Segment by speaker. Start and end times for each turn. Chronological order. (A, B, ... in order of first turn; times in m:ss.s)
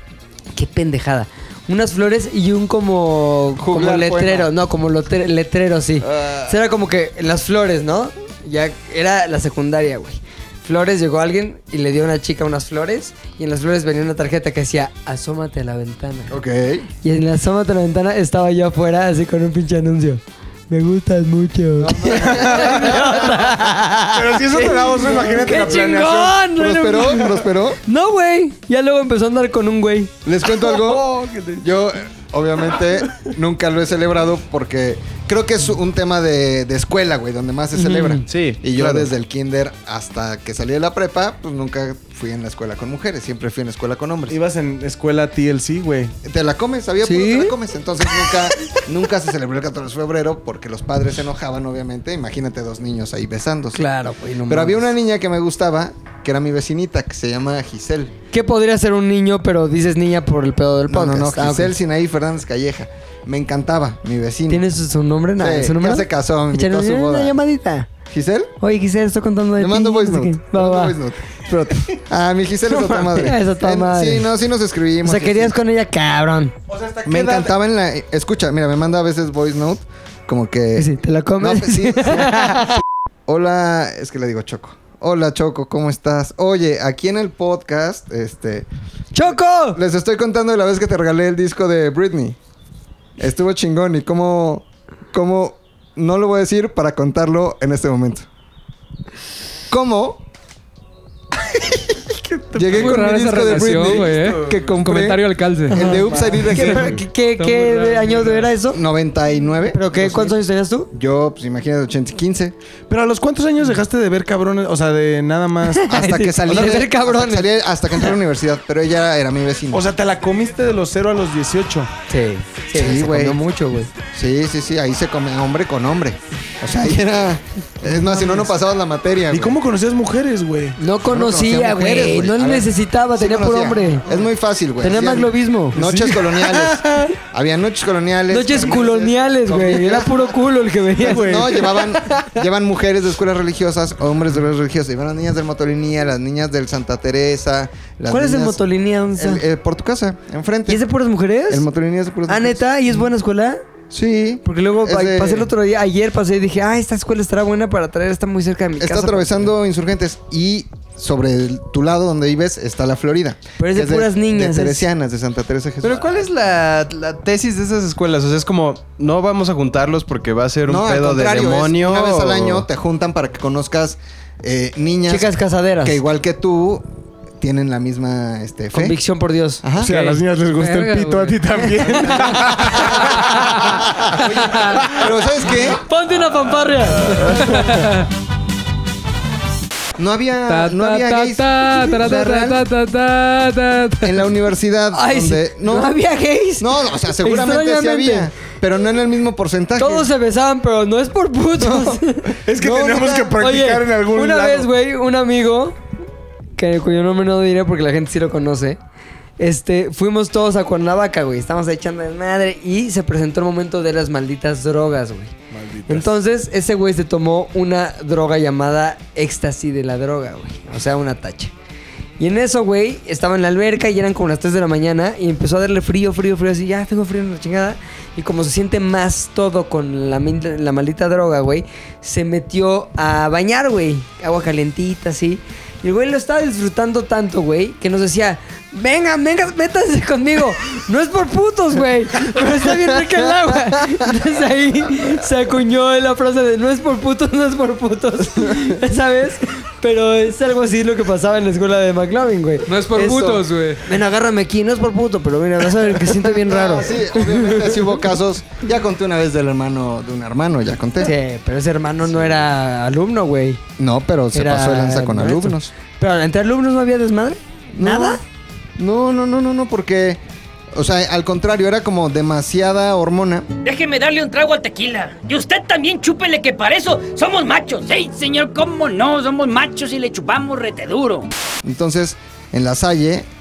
0:00.5-0:16.3 A
0:03.6-0:04.5 B
0:06.0-0:06.6 B
0:16.3-0:16.9 B
0:17.0-0:27.3 A
0:21.8-0:23.0 B
0:22.1-0:23.5 C
0:24.1-0:26.4 C
0:26.6-0:27.8 B
0:27.9-0:30.1 A
0:30.2-0:44.4 B
0:30.6-0:31.6 D
0:37.8-0:38.2 A
0:38.3-0:39.1 D
0:44.3-0:46.1 C
0:46.2-0:53.9 B
0:47.0-0:47.5 A
0:53.7-0:54.9 A
0:54.5-0:58.1 B
0:58.3-1:01.7 A
1:00.9-1:04.6 B
1:04.5-1:07.9 A
1:05.4-1:07.4 B
1:08.1-1:08.5 B
1:08.6-1:11.0 A
1:09.6-1:15.6 B
1:12.7-1:13.0 D
1:13.1-1:14.3 A
1:15.0-1:16.5 A
1:16.7-1:17.5 C
1:17.1-1:22.7 B
1:20.8-1:22.7 A
1:23.3-1:28.7 B
1:29.1-1:29.8 A
1:29.2-1:32.4 B
1:33.2-1:38.3 B
1:39.7-1:40.2 B
1:41.5-1:41.8 B
1:42.3-1:42.8 C
1:42.5-1:47.0 B
1:42.7-1:45.9 E
1:43.6-1:44.6 D
1:45.7-1:48.8 A
1:46.5-1:47.0 C
1:47.4-1:48.5 E
1:48.7-1:50.4 B
1:49.7-1:50.9 A
1:50.9-1:52.6 B
1:52.9-1:55.9 C
1:55.8-1:57.5 A
1:55.9-1:59.9 B
1:59.7-2:01.9 C
2:02.1-2:03.9 A
2:02.7-2:03.4 B
2:04.1-2:09.6 B
2:08.1-2:08.4 C
2:09.3-2:10.8 C
2:10.8-2:14.0 A
2:11.1-2:20.4 B
2:14.8-2:15.8 A
2:15.8-2:16.8 C
2:18.3-2:21.7 A
2:21.0-2:28.6 B
2:28.1-2:29.4 A
2:29.2-2:30.8 B
2:30.7-2:31.7 A
2:31.5-2:33.1 B
2:32.3-2:33.6 A
2:33.9-2:35.5 B
2:34.4-2:39.5 A
2:38.8-2:46.3 B
2:43.6-2:44.9 A
2:45.8-2:52.7 D
2:50.7-2:55.3 B
2:55.1-2:56.0 A
2:55.8-2:56.8 B
2:57.4-2:59.0 B
2:58.7-2:59.6 A
2:59.6-2:59.9 B
2:59.8-3:04.2 C
2:59.9-3:02.2 E
3:03.4-3:05.8 B
3:05.9-3:07.7 A
3:07.5-3:08.0 E
3:10.0-3:12.6 B
3:10.5-3:14.2 E
3:14.0-3:16.0 B
3:14.9-3:18.3 A
3:16.6-3:20.1 B
3:19.8-3:22.4 A
3:21.6-3:23.4 B
3:22.5-3:24.7 C
3:23.4-3:25.8 A
3:26.6-3:28.8 A
3:29.4-3:35.3 A
3:35.5-3:36.1 C
3:35.9-3:41.5 A
3:42.2-4:18.1 A
4:12.6-4:13.8 E
4:16.1-4:21.1 B
4:21.0-4:23.6 A
4:23.8-4:25.7 B
4:24.3-4:28.2 A
4:27.7-4:28.2 B
4:28.8-4:30.2 B
4:30.7-4:33.5 B
4:33.6-4:41.3 F
4:41.6-4:43.3 B